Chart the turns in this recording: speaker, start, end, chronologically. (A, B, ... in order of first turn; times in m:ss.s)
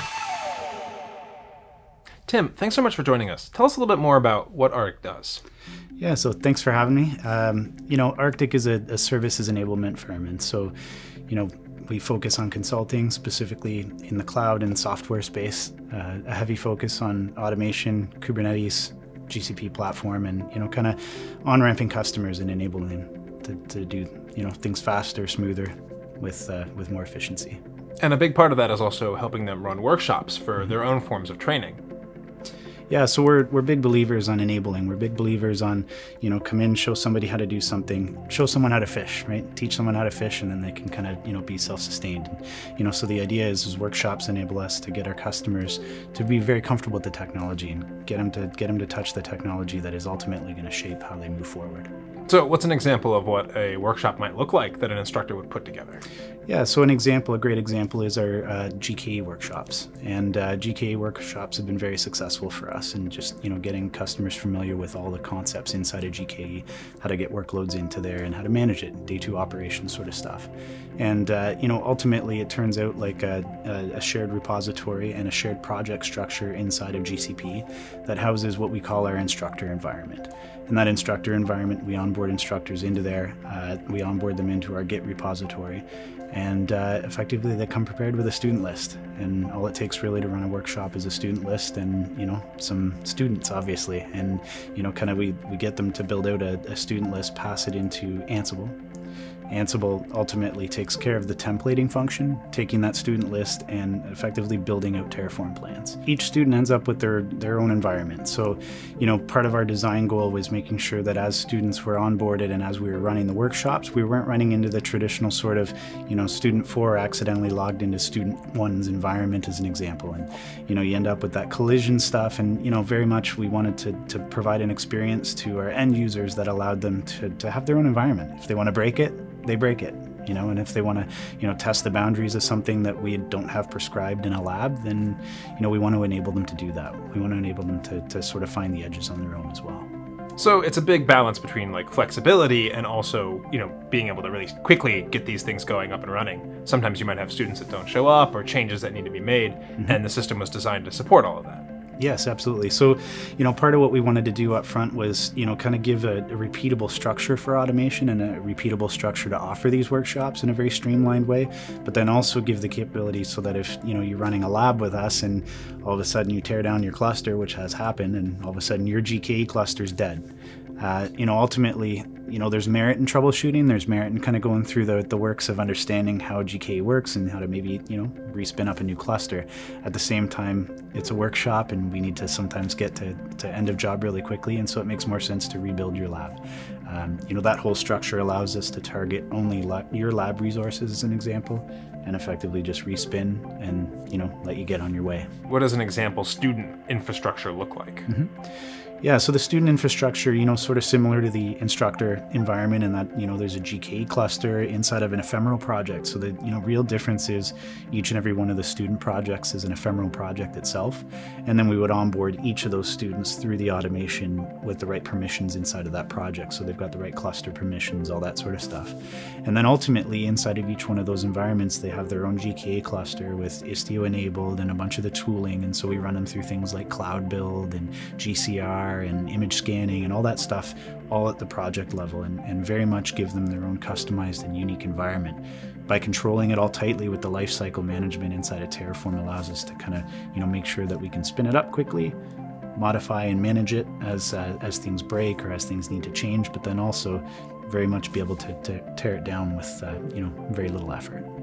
0:02.3-0:05.4 A
0:06.0-0:10.7 B
0:11.3-0:27.6 B
0:28.0-0:31.8 A
0:32.9-0:51.9 B
0:52.3-0:56.0 A
0:56.5-1:38.8 B
1:39.5-2:19.9 B
2:20.4-2:31.6 A
2:32.0-2:50.2 B
2:50.8-3:15.3 B
3:15.5-3:18.1 A
3:18.1-3:18.5 B
3:19.0-4:02.2 B
4:02.8-4:11.3 B